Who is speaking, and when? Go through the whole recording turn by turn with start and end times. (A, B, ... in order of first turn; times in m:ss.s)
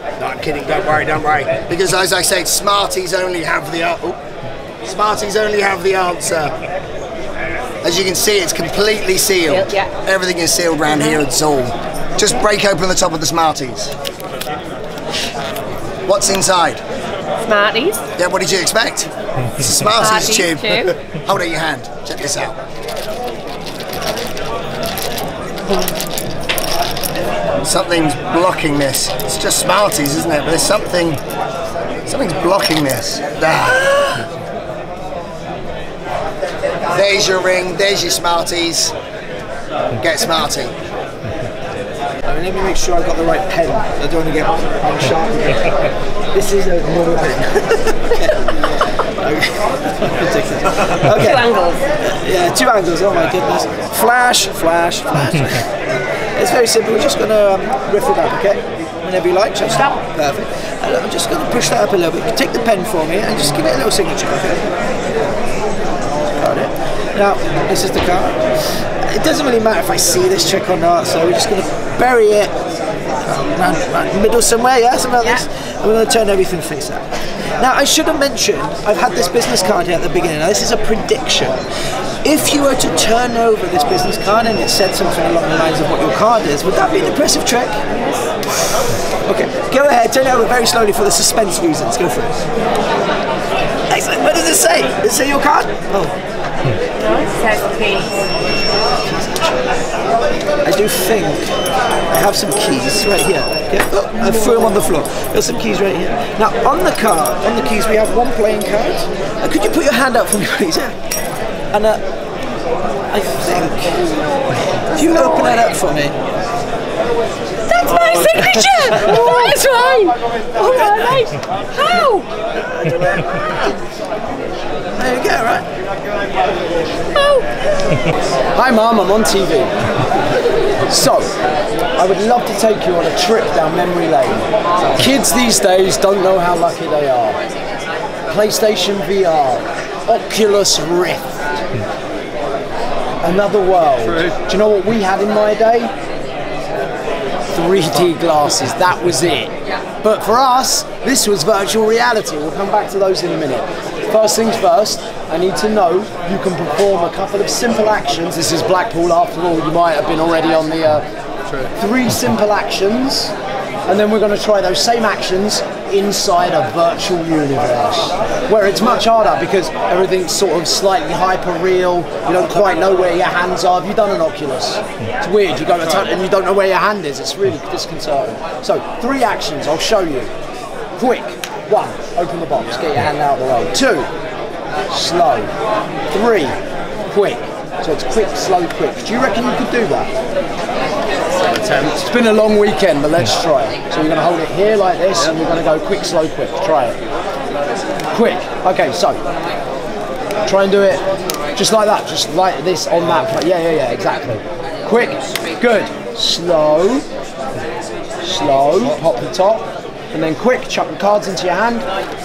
0:00.2-0:04.2 A
0:04.8-0:06.6 A
0:07.8-0:13.9 A
0:09.5-0:09.9 B
0:16.0-0:16.8 A
0:17.4-0:18.0 B
0:18.2-0:22.6 A
0:19.9-0:20.9 B
0:27.6-0:31.2 A
0:32.1-0:33.8 A
0:36.9-0:38.9 A
0:40.0-0:40.7 A
0:42.2-0:45.6 C
0:46.3-0:48.3 C
0:49.2-0:51.4 C
0:51.2-0:51.9 B
0:52.2-0:55.7 C
0:56.4-1:04.7 C
1:06.4-1:12.5 C
1:13.2-1:21.6 C
1:22.2-1:27.8 C
1:28.0-1:28.3 B
1:29.2-1:32.4 C
1:33.9-1:36.1 C
1:37.0-1:38.2 B
1:40.6-1:41.5 C
1:42.1-1:51.0 C
1:51.7-1:52.0 C
1:53.1-1:54.0 C
1:54.9-1:55.7 B
1:54.9-1:56.2 C
1:57.6-2:02.3 B
1:57.9-1:59.5 C
2:02.5-2:03.8 C
2:05.0-2:05.7 C
2:07.1-2:07.5 B
2:08.6-2:09.8 D
2:10.9-2:11.3 D
2:12.0-2:17.4 D
2:18.3-2:21.3 D
2:23.2-2:25.9 D
2:27.5-2:41.0 D
2:41.7-2:43.3 D
2:43.9-3:00.3 D
3:01.0-3:04.1 D
3:04.9-3:05.5 D
3:06.1-3:06.6 D
3:07.1-3:10.1 D
3:12.0-3:17.0 D
3:18.1-3:19.2 D
3:20.4-3:21.0 D
3:21.6-3:27.0 D
3:28.2-3:31.9 D